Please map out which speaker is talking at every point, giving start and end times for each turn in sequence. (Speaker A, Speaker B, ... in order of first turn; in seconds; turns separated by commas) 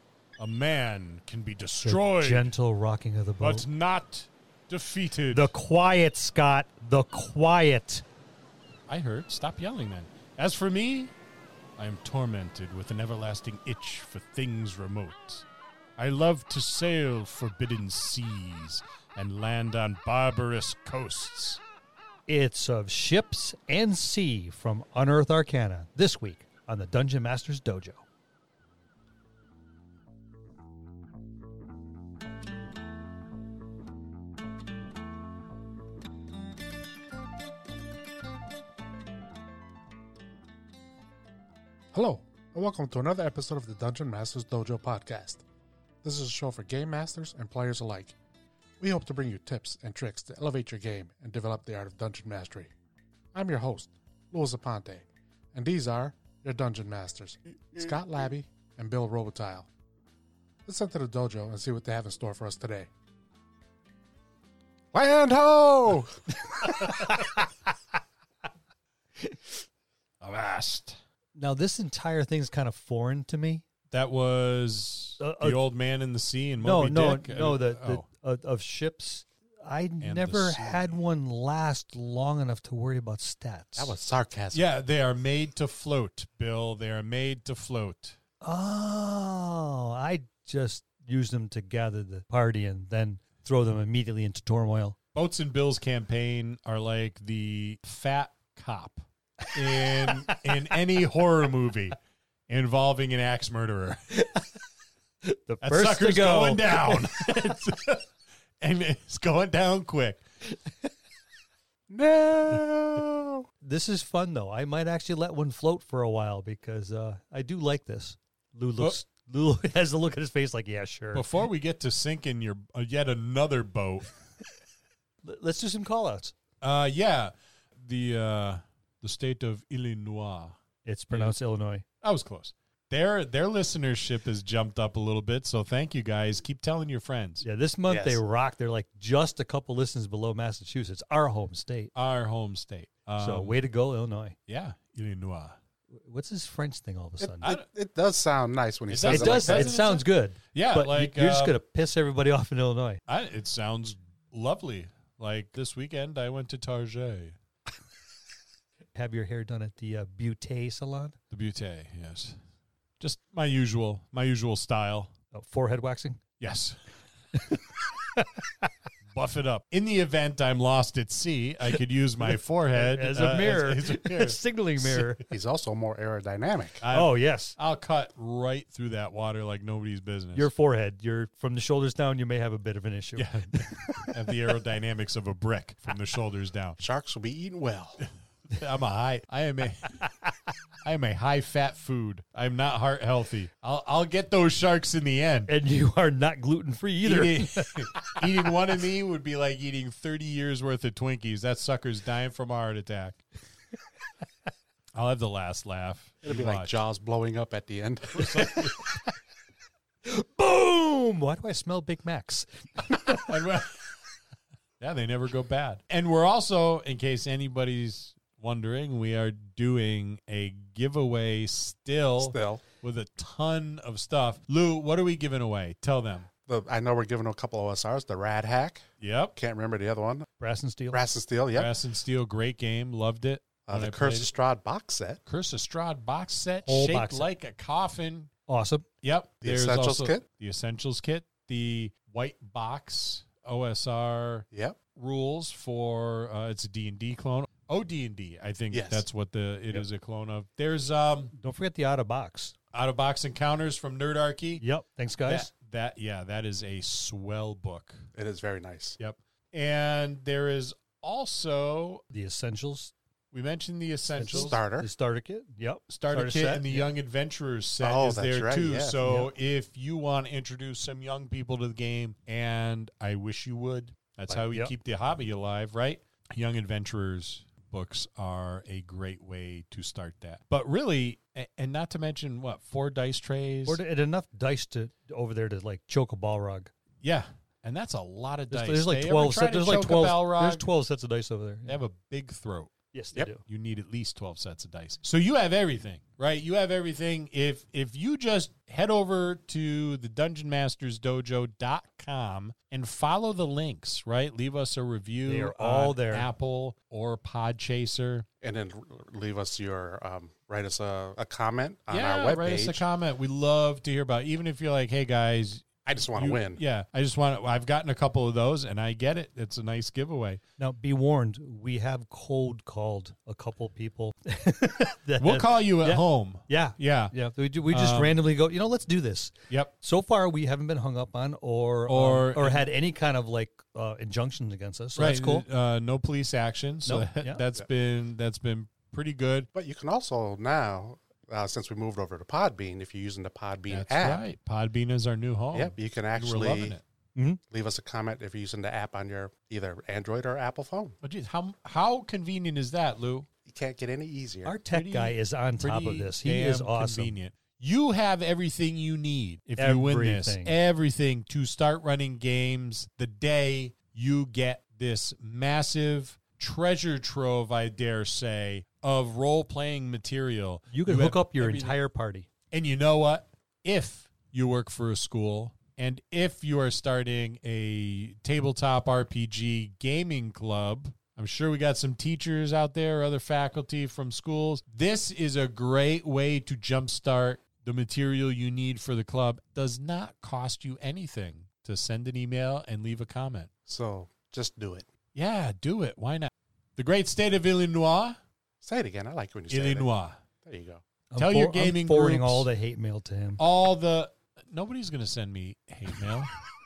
Speaker A: 0.4-2.5, Speaker B: 1.8-3.7, Speaker A: 3.4-5.5, Speaker B: 5.3-8.0, Speaker A: 8.9-11.1, Speaker A: 11.8-15.4, Speaker A: 16.0-21.6, Speaker B: 22.3-28.0, Speaker C: 41.9-45.4, Speaker C: 46.0-48.2, Speaker C: 48.8-52.7, Speaker C: 53.3-59.7, Speaker C: 60.7-62.9, Speaker C: 64.9-66.3, Speaker B: 66.5-67.5, Speaker A: 70.2-71.0, Speaker B: 71.4-73.6, Speaker A: 73.9-78.0, Speaker B: 75.2-75.6, Speaker B: 76.6-84.0, Speaker A: 80.0-81.0, Speaker C: 83.8-84.7, Speaker A: 84.5-88.2, Speaker B: 88.4-95.0, Speaker A: 95.2-102.0, Speaker B: 99.5-100.4, Speaker A: 102.5-104.2, Speaker B: 105.2-107.6, Speaker A: 105.6-108.0, Speaker A: 108.6-110.2, Speaker C: 111.9-113.4, Speaker B: 113.6-121.2, Speaker A: 121.1-124.1, Speaker B: 125.2-126.3, Speaker A: 126.6-130.6, Speaker B: 130.8-131.8, Speaker A: 132.0-137.4, Speaker B: 137.4-141.9, Speaker C: 137.9-138.2, Speaker A: 141.9-143.6, Speaker B: 143.2-144.4, Speaker A: 144.5-145.6, Speaker B: 146.0-147.5, Speaker C: 147.2-149.8, Speaker A: 148.9-151.6, Speaker B: 149.1-153.0, Speaker A: 153.1-157.4, Speaker B: 158.9-161.2, Speaker A: 161.3-162.4, Speaker A: 163.0-165.1, Speaker B: 165.3-166.2, Speaker A: 166.4-166.8, Speaker B: 167.3-168.7, Speaker A: 169.1-175.2, Speaker B: 172.3-175.2, Speaker C: 175.3-176.8, Speaker A: 176.8-180.5, Speaker B: 176.9-177.6, Speaker B: 180.3-184.2, Speaker A: 183.2-186.8, Speaker C: 186.8-188.0, Speaker A: 188.5-190.1, Speaker A: 190.8-195.5, Speaker B: 195.5-198.2, Speaker A: 197.0-203.2, Speaker A: 204.9-206.8, Speaker C: 206.2-208.7, Speaker A: 208.1-208.9, Speaker B: 210.1-213.3, Speaker A: 213.1-213.8, Speaker A: 214.8-226.3, Speaker C: 222.2-222.6, Speaker C: 226.5-230.3, Speaker A: 229.0-229.3, Speaker B: 230.4-231.0, Speaker C: 230.9-231.7, Speaker A: 231.5-234.3, Speaker C: 233.7-235.2, Speaker A: 235.3-238.3, Speaker B: 236.7-237.3, Speaker B: 238.5-238.9, Speaker A: 239.0-251.3, Speaker C: 239.4-240.2, Speaker C: 244.5-244.8, Speaker C: 248.7-249.1, Speaker B: 251.3-252.5, Speaker A: 252.7-254.6, Speaker B: 254.6-255.5, Speaker A: 255.3-258.1, Speaker C: 258.1-259.0, Speaker A: 259.0-262.0, Speaker B: 262.1-262.9, Speaker A: 263.3-264.6, Speaker B: 264.2-266.9, Speaker C: 264.3-264.9, Speaker A: 265.9-283.8, Speaker C: 267.8-269.0, Speaker B: 269.0-269.3, Speaker B: 274.3-274.7, Speaker B: 283.7-286.7, Speaker A: 287.0-290.6, Speaker B: 288.5-291.8, Speaker A: 291.7-292.7, Speaker B: 292.9-293.4, Speaker A: 293.4-308.3, Speaker B: 305.3-306.3, Speaker C: 308.4-312.8, Speaker A: 311.9-320.4, Speaker C: 315.9-316.6, Speaker B: 320.6-335.4, Speaker A: 325.2-327.1, Speaker A: 327.7-328.2, Speaker A: 331.9-332.7, Speaker A: 335.0-339.5, Speaker B: 336.9-337.4, Speaker C: 339.5-344.2, Speaker A: 343.7-346.8, Speaker C: 345.5-346.8, Speaker B: 347.1-347.4, Speaker C: 347.5-351.0, Speaker A: 351.0-353.3, Speaker C: 353.5-354.6, Speaker B: 354.4-357.1, Speaker A: 354.7-371.8, Speaker B: 359.6-360.6, Speaker B: 370.7-372.3, Speaker A: 372.5-393.5, Speaker C: 393.7-394.9, Speaker A: 395.1-398.2, Speaker C: 398.6-399.9, Speaker A: 399.5-400.2, Speaker C: 400.4-400.8, Speaker B: 401.1-403.4, Speaker A: 401.2-402.5, Speaker A: 403.4-406.4